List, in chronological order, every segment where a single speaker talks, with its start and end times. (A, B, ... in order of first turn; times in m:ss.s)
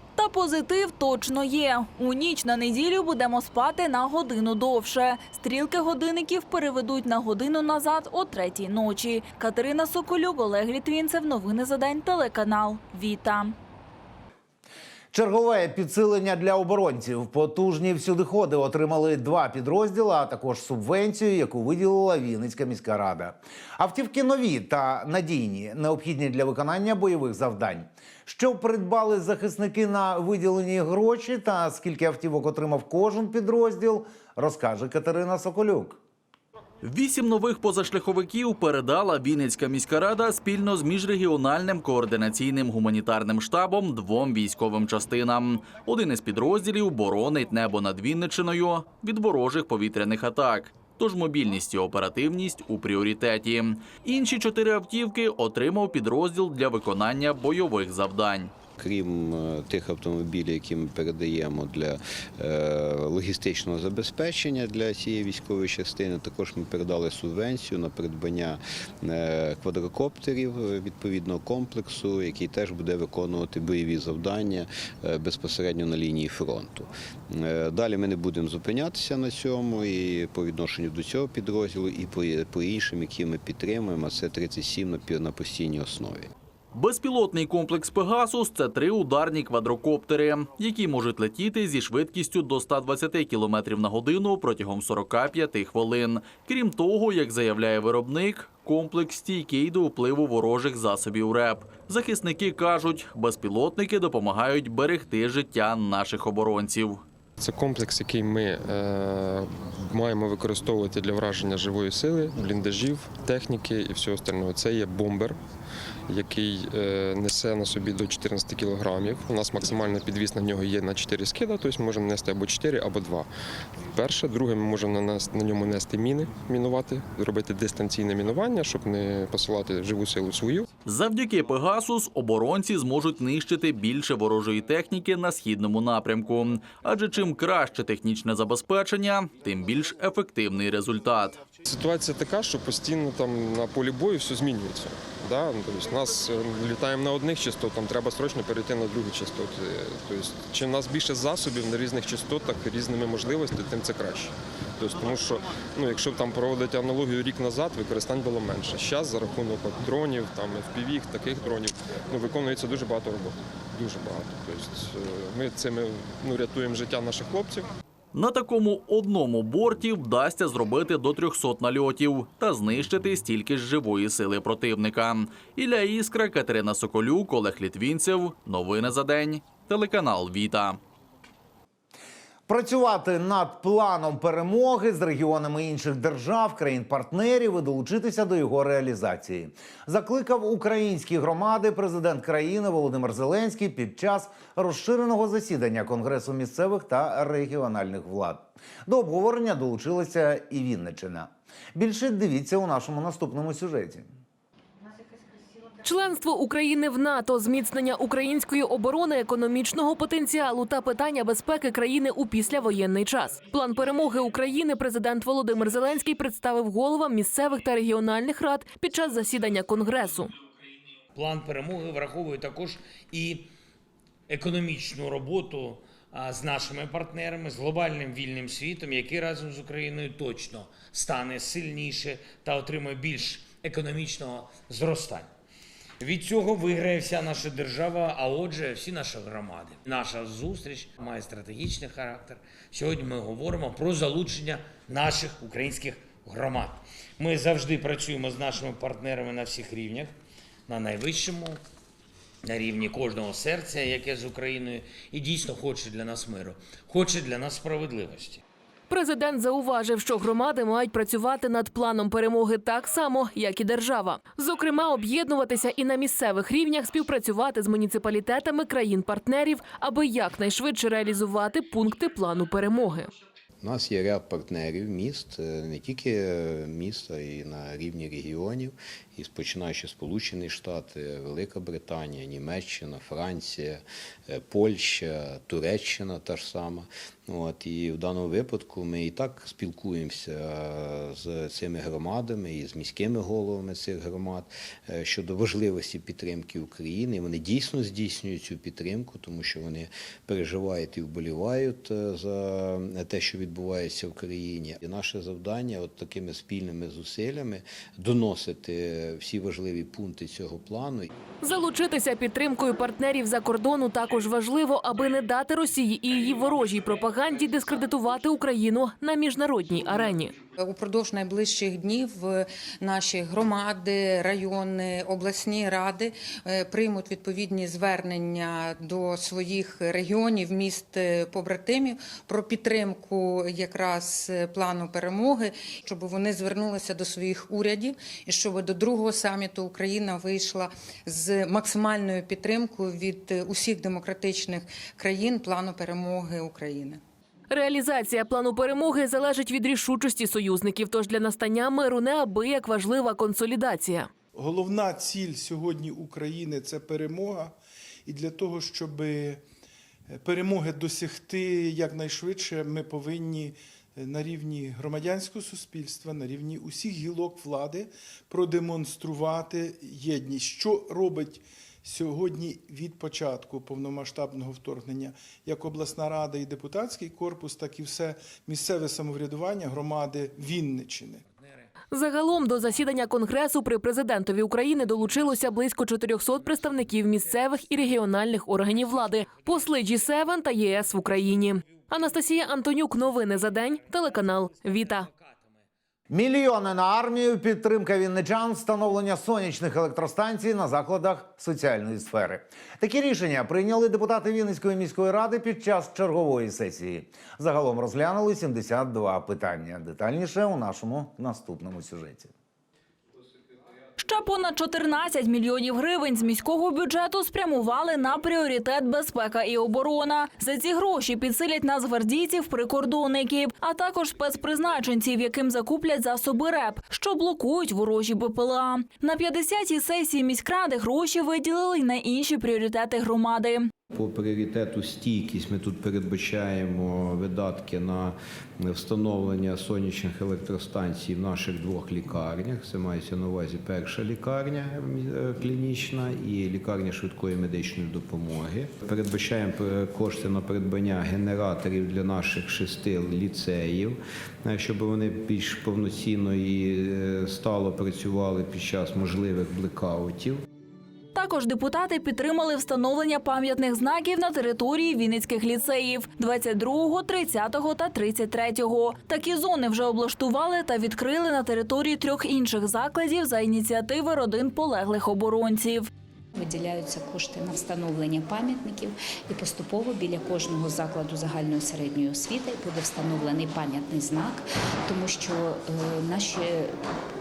0:00.2-0:13.6 A
0:15.1-0:36.0 B
0:36.8-0:58.5 C
0:58.8-1:26.3 D
1:26.7-1:47.0 C
1:47.4-1:55.4 E
1:56.1-2:03.3 E
2:03.9-2:10.7 E
2:10.9-2:21.4 C
2:21.7-2:47.7 E
2:48.1-3:00.8 C
3:02.5-3:24.1 B
3:25.8-3:40.3 F
3:41.1-3:43.5 G
3:44.3-3:55.3 G
3:56.0-4:10.1 G
4:10.7-4:11.6 G
4:12.4-4:18.4 G
4:18.9-4:33.1 F
4:33.6-5:11.1 D
5:11.4-5:20.4 F
5:20.6-5:47.0 H
5:47.5-5:54.1 F
5:54.3-5:57.5 I
5:58.1-5:59.4 I
6:00.1-6:21.2 I
6:21.9-6:35.1 F
6:36.1-6:52.3 B
6:54.0-7:13.7 A
7:13.9-7:40.4 D
7:41.2-7:55.9 A
7:56.4-8:06.8 J